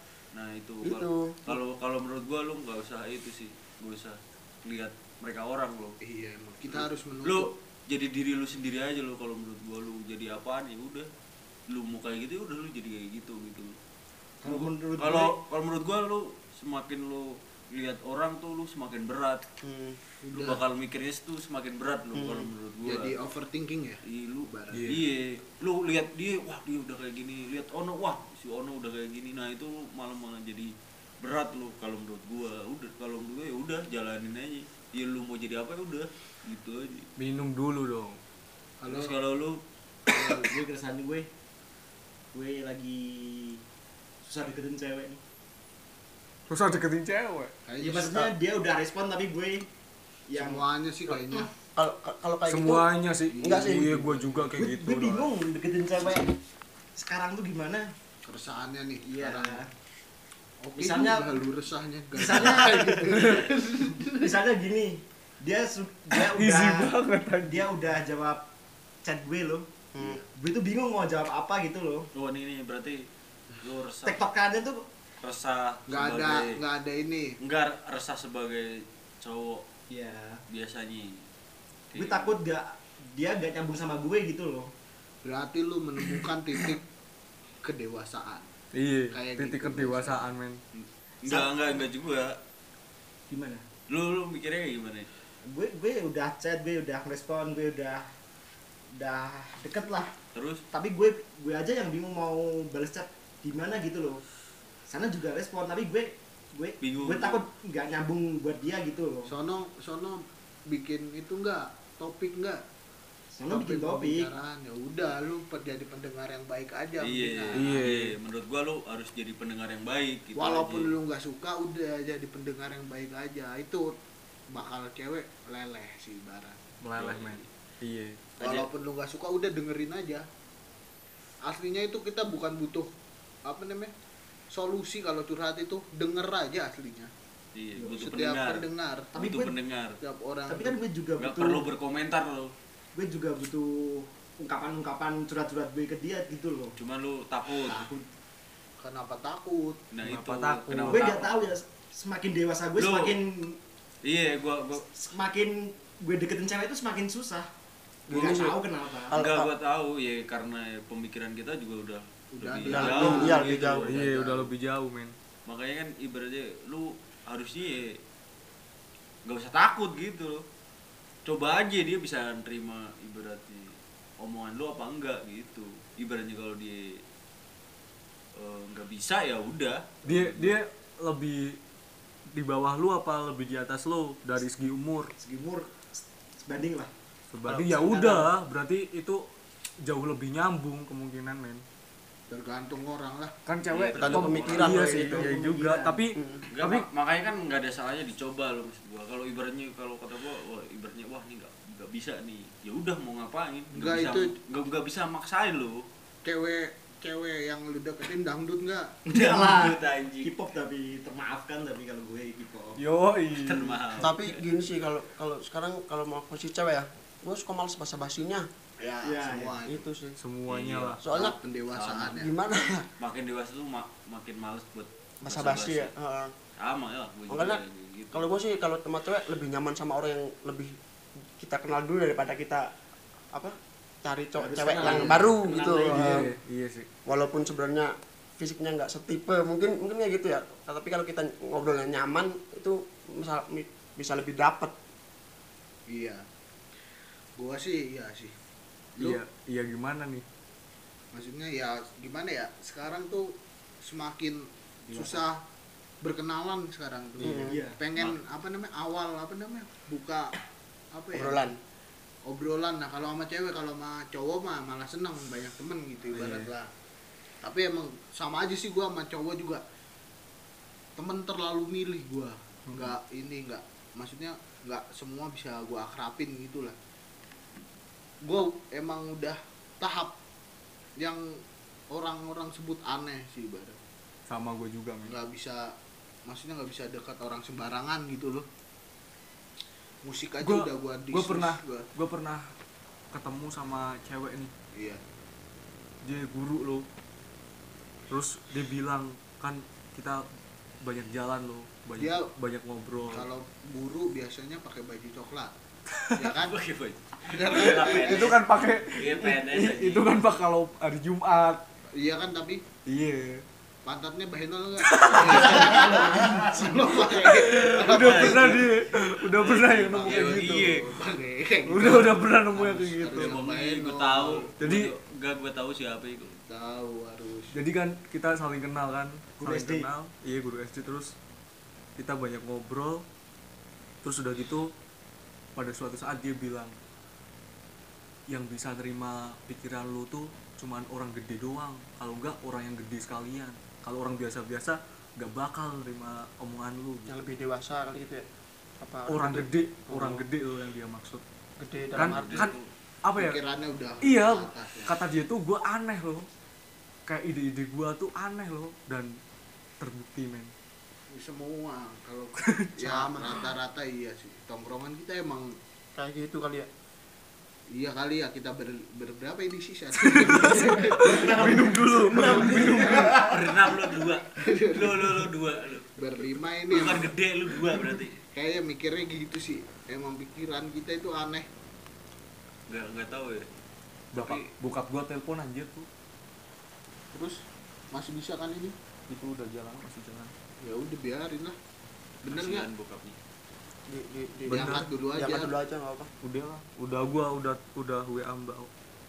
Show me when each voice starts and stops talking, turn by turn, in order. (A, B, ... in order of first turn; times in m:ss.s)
0:00.3-0:06.0 A
0:00.8-0:01.5 B
0:06.0-0:07.5 C
0:06.7-0:11.1 A
0:11.7-0:13.8 A
0:14.4-0:15.4 D
0:14.4-0:19.4 A
0:19.6-0:20.0 B
0:20.2-0:20.6 C
0:20.3-0:23.1 A
0:22.1-0:22.5 B
0:22.8-0:24.9 C
0:24.1-0:37.1 A
0:24.7-0:25.0 E
0:37.2-0:38.2 E
0:38.8-0:39.2 C
0:38.9-0:39.6 A
0:40.2-0:41.3 D
0:42.3-0:43.6 D
0:44.2-0:45.2 D
0:46.5-0:47.5 E
0:47.7-0:48.4 C
0:47.8-0:49.7 D
0:50.3-0:50.6 D
0:50.3-0:51.5 C
0:51.8-0:52.9 B
0:52.5-0:55.3 E
0:53.3-0:54.6 C
0:53.4-0:54.0 B
0:54.6-0:56.3 D
0:57.0-0:57.9 D
0:58.2-0:59.6 C
0:59.0-0:59.7 D
1:00.6-1:04.4 C
1:00.8-1:01.3 D
1:02.2-1:03.3 D
1:04.2-1:06.9 D
1:06.2-1:07.7 E
1:07.4-1:08.4 D
1:09.0-1:09.7 D
1:10.0-1:10.2 B
1:10.3-1:12.1 D
1:12.1-1:13.0 A
1:13.6-1:14.2 A
1:14.0-1:14.8 D
1:15.2-1:16.6 A
1:15.9-1:17.3 C
1:17.4-1:18.7 A
1:19.2-1:19.6 A
1:19.9-1:20.4 D
1:20.5-1:21.1 A
1:21.9-1:22.4 A
1:22.0-1:24.7 D
1:25.2-1:26.8 C
1:27.6-1:28.5 C
1:28.7-1:30.6 E
1:29.1-1:30.2 C
1:30.8-1:32.4 A
1:31.3-1:31.8 D
1:33.3-1:33.6 D
1:33.9-1:35.1 A
1:35.4-1:38.1 D
1:38.9-1:40.2 D
1:40.3-1:40.6 A
1:40.7-1:44.2 D
1:44.9-1:49.3 D
1:46.8-1:47.4 A
1:49.3-1:52.6 C
1:53.3-1:54.3 D
1:53.5-1:57.7 C
1:57.0-2:01.0 A
1:57.6-1:58.1 E
2:00.4-2:04.0 C
2:04.5-2:06.6 C
2:06.8-2:08.2 E
2:07.0-2:07.5 A
2:08.4-2:08.7 A
2:08.4-2:10.2 C
2:11.4-2:12.9 C
2:13.4-2:13.9 C
2:14.5-2:17.1 C
2:17.6-2:20.0 A
2:18.0-2:19.1 C
2:19.1-2:19.6 D
2:20.0-2:20.8 C
2:20.5-2:21.6 D
2:21.2-2:22.5 A
2:23.0-2:26.8 D
2:26.8-2:27.9 A
2:27.7-2:28.1 D
2:28.8-2:29.9 C
2:29.9-2:31.3 A
2:30.0-2:31.1 E
2:30.9-2:33.6 D
2:32.8-2:33.2 A
2:34.0-2:34.8 A
2:34.8-2:37.5 D
2:38.1-2:39.5 B
2:38.1-2:39.1 D
2:39.1-2:44.1 A
2:42.4-2:44.5 C
2:42.7-2:43.9 B
2:42.9-2:43.3 D
2:43.8-2:45.2 E
2:45.5-2:47.9 A
2:49.3-2:50.4 A
2:51.2-2:56.8 A
2:58.4-3:00.6 A
3:00.1-3:01.6 E
3:02.3-3:05.1 E
3:05.2-3:06.9 D
3:07.3-3:09.3 E
3:07.5-3:08.3 D
3:09.8-3:11.6 E
3:12.3-3:13.3 C
3:13.5-3:16.9 E
3:13.7-3:15.0 A
3:14.0-3:15.3 B
3:15.0-3:16.0 D
3:16.2-3:16.4 B
3:16.5-3:25.8 A
3:23.7-3:24.3 C
3:26.2-3:29.0 C
3:29.1-3:32.8 D
3:29.2-3:30.3 A
3:32.8-3:33.7 E
3:33.4-3:34.4 A
3:34.0-3:38.5 B
3:38.8-3:39.9 C
3:39.0-3:39.6 D
3:39.7-3:40.2 B
3:40.2-3:41.0 E
3:40.5-3:41.1 A
3:41.0-3:41.4 B
3:41.1-3:42.3 C
3:41.7-3:42.2 A
3:42.2-3:42.9 B
3:43.0-3:45.9 A
3:45.2-3:46.3 B
3:46.6-3:48.3 A
3:47.3-3:50.8 B
3:51.4-3:52.7 B
3:53.3-3:56.3 B
3:54.4-3:56.3 D
3:55.8-3:56.9 E
3:57.1-4:04.8 B
4:05.9-4:06.2 C
4:07.4-4:08.4 C
4:09.0-4:10.2 E
4:11.1-4:15.4 C
4:14.9-4:15.2 D
4:16.0-4:20.3 C
4:17.2-4:17.6 B
4:17.4-4:17.8 D
4:20.9-4:21.5 C
4:21.1-4:21.6 B
4:22.3-4:26.7 C
4:26.1-4:26.5 E
4:27.4-4:29.6 C
4:31.0-4:36.8 C
4:38.2-4:40.2 C
4:41.9-4:43.8 C
4:44.3-4:45.2 E
4:45.0-4:45.7 C
4:46.3-4:48.5 C
4:50.0-4:51.9 C
4:50.4-4:52.5 E
4:53.1-4:54.5 E
4:54.7-4:55.0 C
4:56.0-4:56.9 E
4:58.1-5:00.3 E
5:00.8-5:03.3 E
5:02.0-5:02.3 C
5:03.0-5:05.5 C
5:06.0-5:06.3 E
5:06.2-5:06.6 C
5:06.4-5:08.4 A
5:07.3-5:08.4 C
5:07.6-5:11.6 E
5:09.0-5:10.1 A
5:11.9-5:12.6 C
5:12.9-5:13.4 E
5:13.8-5:24.5 C
5:14.8-5:20.8 E
5:17.9-5:18.6 A
5:19.4-5:20.9 A
5:21.6-5:23.4 E
5:23.1-5:26.3 A
5:24.6-5:24.9 E
5:26.2-5:27.6 C
5:27.5-5:31.2 E
5:29.4-5:29.9 D
5:32.0-5:33.0 E
5:34.0-5:34.7 E
5:35.6-5:36.8 E
5:38.3-5:47.1 E
5:47.1-5:48.3 B
5:48.8-5:50.3 B
5:49.1-5:51.2 E
5:51.6-5:52.5 B
5:52.0-5:53.4 E
5:52.0-5:52.7 A
5:53.2-5:55.0 C
5:54.0-5:56.3 E
5:57.1-5:59.2 E
5:59.8-6:00.5 E
6:01.1-6:05.6 C
6:02.4-6:02.8 E
6:02.9-6:03.3 B
6:06.0-6:06.7 B
6:07.7-6:13.1 C
6:10.0-6:13.2 E
6:11.0-6:13.4 D
6:13.1-6:16.0 A
6:14.3-6:15.3 C
6:16.0-6:17.1 C
6:16.7-6:18.2 A
6:18.2-6:21.5 C
6:22.7-6:23.5 A
6:24.1-6:25.9 E
6:24.2-6:24.5 A
6:27.1-6:27.4 C
6:27.9-6:28.8 C
6:29.1-6:30.3 E
6:30.6-6:31.6 C
6:32.2-6:32.7 C
6:32.3-6:33.2 A
6:33.9-6:36.1 B
6:34.5-6:34.9 E
6:34.5-6:35.5 C
6:36.2-6:38.7 E